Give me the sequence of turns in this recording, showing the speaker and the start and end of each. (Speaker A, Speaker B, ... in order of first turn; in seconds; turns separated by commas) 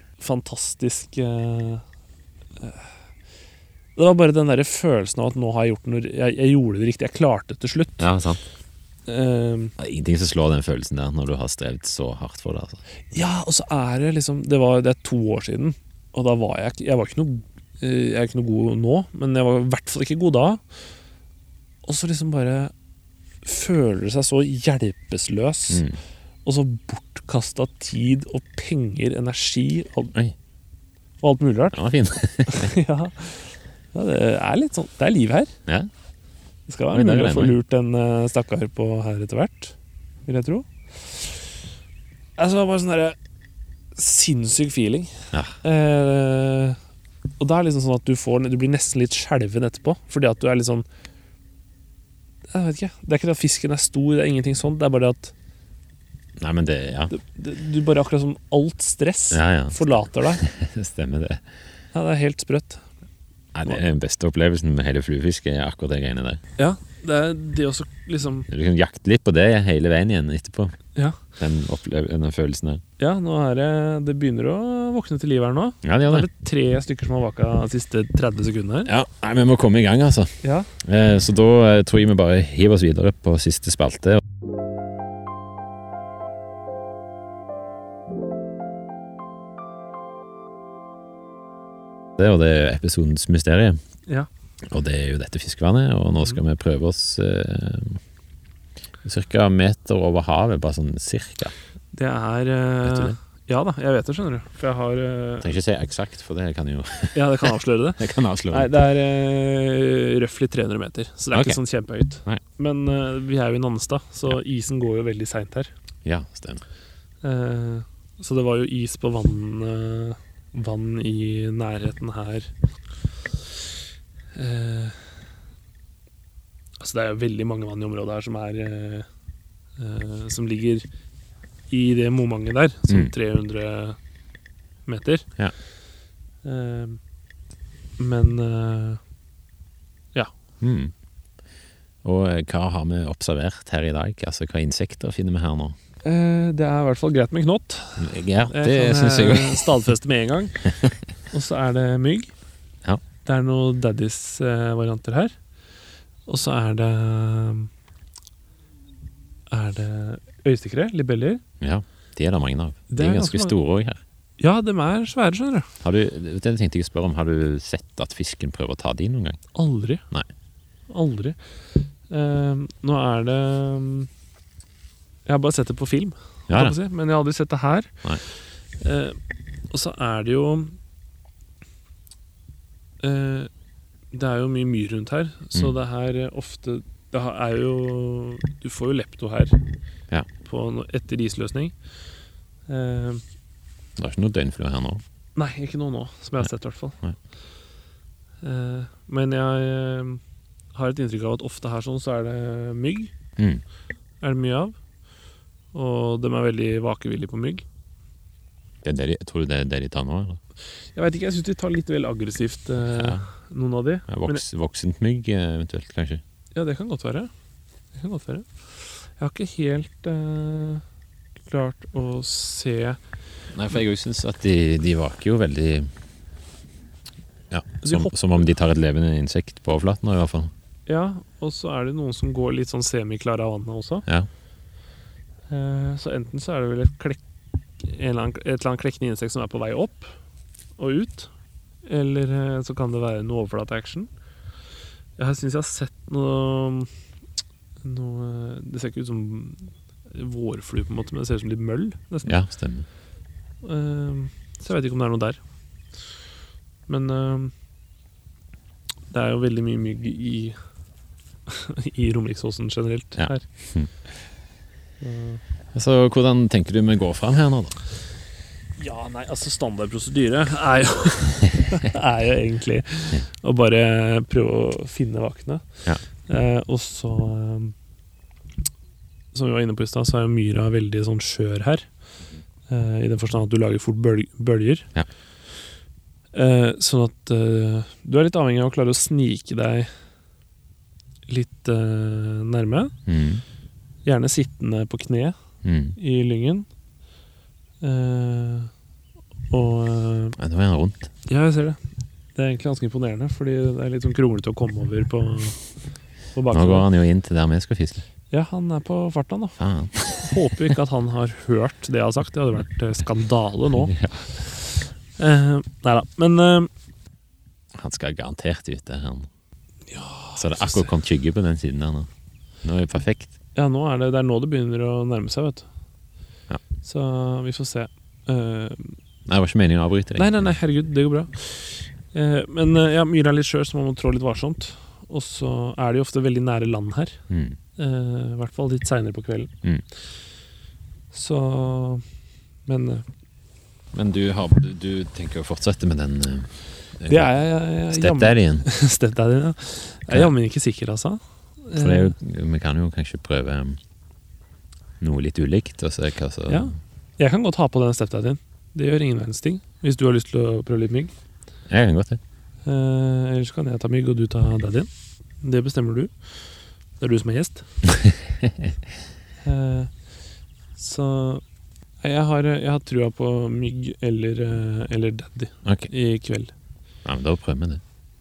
Speaker A: 0.2-1.8, Speaker A: 4.0-8.1, Speaker B: 8.0-8.4, Speaker A: 9.1-9.7, Speaker B: 9.8-12.8, Speaker A: 13.1-20.6, Speaker A: 21.8-22.7, Speaker A: 23.4-25.8, Speaker B: 25.7-26.0, Speaker A: 26.4-30.1, Speaker A: 31.2-31.9, Speaker B: 31.7-32.7, Speaker A: 32.5-35.5, Speaker A: 36.7-39.7, Speaker B: 36.9-37.5, Speaker A: 40.3-41.5, Speaker A: 42.4-43.2, Speaker A: 44.0-46.8, Speaker A: 47.4-50.9, Speaker A: 52.5-55.3, Speaker B: 56.4-57.1, Speaker A: 57.1-60.4, Speaker B: 59.3-61.4, Speaker A: 61.9-62.8, Speaker B: 63.5-66.4, Speaker A: 66.6-68.5, Speaker B: 68.5-70.7, Speaker A: 70.9-71.2, Speaker B: 71.4-72.8, Speaker A: 73.0-78.9, Speaker B: 75.8-76.3, Speaker B: 78.8-84.2, Speaker A: 80.4-80.7, Speaker B: 92.2-93.8, Speaker B: 94.7-98.0, Speaker B: 99.0-101.5, Speaker A: 101.9-105.5, Speaker B: 102.8-103.2, Speaker B: 105.4-108.7, Speaker A: 107.1-115.7, Speaker B: 111.3-111.6, Speaker B: 116.0-116.6, Speaker A: 117.2-122.5, Speaker A: 124.3-125.0, Speaker A: 126.8-129.1, Speaker A: 129.8-130.8, Speaker A: 131.7-134.0, Speaker A: 134.9-135.2, Speaker A: 136.4-137.0, Speaker A: 138.0-139.0, Speaker B: 140.6-140.9, Speaker B: 142.0-145.8, Speaker A: 146.0-150.6, Speaker B: 148.0-149.8, Speaker A: 151.3-152.3, Speaker A: 153.2-155.3, Speaker A: 156.3-157.7, Speaker A: 159.5-161.4, Speaker B: 161.6-164.0, Speaker A: 162.9-163.5, Speaker A: 164.4-165.7, Speaker B: 165.8-169.4, Speaker A: 169.5-170.0, Speaker A: 170.9-171.4, Speaker A: 172.1-174.1, Speaker A: 175.2-177.9, Speaker B: 176.5-176.7, Speaker A: 178.8-179.2, Speaker A: 179.7-180.7, Speaker A: 183.0-183.5, Speaker A: 184.1-189.6, Speaker A: 190.4-191.7, Speaker A: 192.7-193.2, Speaker B: 194.0-195.0, Speaker A: 195.3-197.0, Speaker A: 198.4-200.2, Speaker A: 200.7-203.1, Speaker B: 203.4-203.6, Speaker A: 204.2-204.7, Speaker A: 205.7-207.6, Speaker B: 208.8-210.4, Speaker A: 210.9-214.4, Speaker B: 212.8-213.2, Speaker B: 214.1-216.2, Speaker A: 216.5-217.3, Speaker A: 217.9-218.5, Speaker A: 219.0-220.8, Speaker A: 221.5-223.0, Speaker B: 223.5-225.9, Speaker B: 227.5-230.5, Speaker A: 227.8-228.1, Speaker A: 230.9-234.0, Speaker A: 235.5-237.2, Speaker A: 237.8-240.1, Speaker A: 240.8-241.3, Speaker A: 241.8-244.1, Speaker A: 245.2-246.9, Speaker A: 247.8-252.4, Speaker B: 252.2-252.9, Speaker A: 253.6-255.4, Speaker A: 256.9-257.5, Speaker A: 259.1-260.6, Speaker A: 261.5-263.4, Speaker B: 263.2-263.9, Speaker A: 265.0-265.4, Speaker B: 265.7-267.8, Speaker A: 268.8-275.6, Speaker A: 276.3-277.7, Speaker A: 279.3-281.8, Speaker A: 282.7-284.9, Speaker A: 286.3-289.9, Speaker A: 291.3-292.9, Speaker B: 293.1-293.4, Speaker A: 294.0-295.3, Speaker B: 295.6-296.0, Speaker A: 296.0-296.6, Speaker A: 297.8-298.7, Speaker A: 299.5-300.4, Speaker B: 300.4-301.1, Speaker A: 301.2-301.8, Speaker A: 302.4-305.6, Speaker A: 306.3-306.9, Speaker B: 306.5-308.0, Speaker A: 308.3-309.6, Speaker B: 309.6-310.4, Speaker A: 310.2-313.9, Speaker B: 313.9-314.3, Speaker A: 315.2-316.7, Speaker B: 317.7-319.3, Speaker A: 319.9-320.9, Speaker B: 320.4-322.1, Speaker B: 322.6-323.3, Speaker A: 323.5-325.6, Speaker A: 326.8-329.0, Speaker B: 329.2-330.5, Speaker A: 330.1-337.2, Speaker B: 337.3-337.6, Speaker A: 337.8-339.5, Speaker A: 341.1-342.0, Speaker A: 342.7-343.0, Speaker B: 343.9-347.4, Speaker A: 347.1-352.1, Speaker B: 347.9-348.6, Speaker B: 351.8-353.8, Speaker B: 355.0-356.7, Speaker A: 356.5-361.1, Speaker B: 361.7-362.2, Speaker A: 362.6-364.9, Speaker A: 365.4-366.1, Speaker A: 367.0-367.6, Speaker B: 367.9-368.8, Speaker A: 369.4-369.9, Speaker A: 370.8-371.4, Speaker A: 372.0-376.5, Speaker B: 377.0-377.8